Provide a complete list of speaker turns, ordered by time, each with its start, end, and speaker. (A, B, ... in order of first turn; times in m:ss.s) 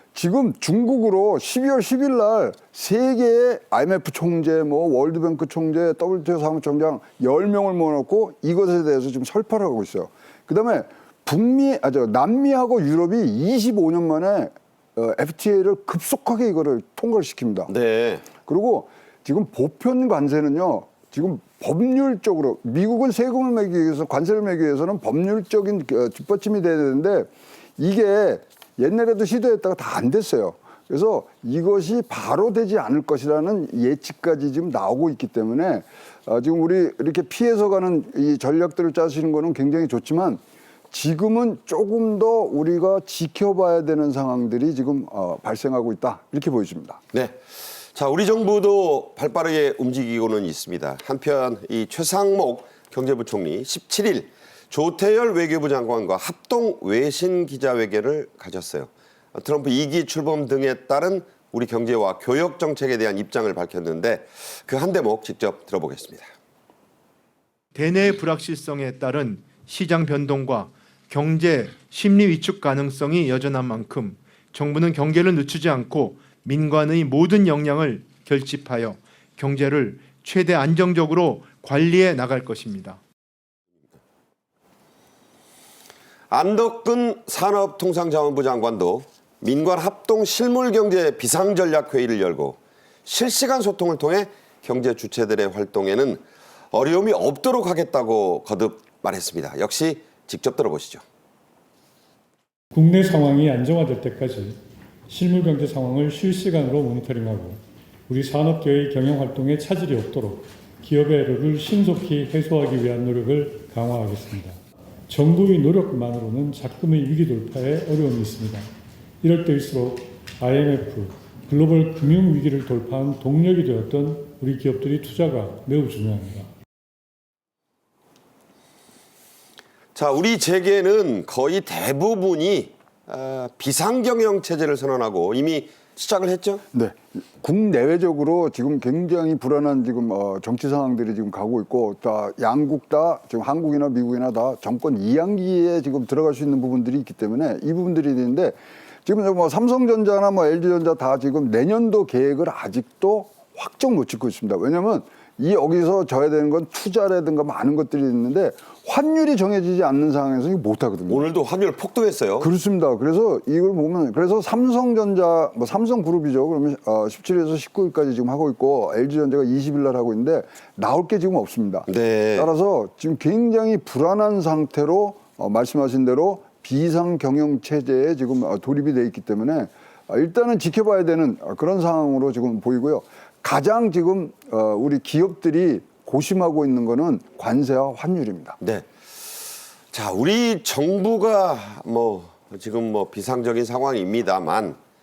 0:00.2-0:17.7 A
0:17.7-0:18.3 B
0:18.4-0:47.0 A
0:47.1-0:47.4 B
0:47.9-1:06.3 B
1:07.8-1:23.0 C
1:26.3-1:41.0 B
1:42.7-1:44.6 D
1:45.1-1:54.6 D
1:55.1-1:58.7 D
1:59.2-2:06.5 D
2:10.0-2:16.6 B
2:16.7-2:41.3 A
2:41.1-2:42.5 B
2:42.4-3:08.6 A
2:51.9-2:52.5 B
3:08.6-3:08.9 B
3:09.9-3:14.8 B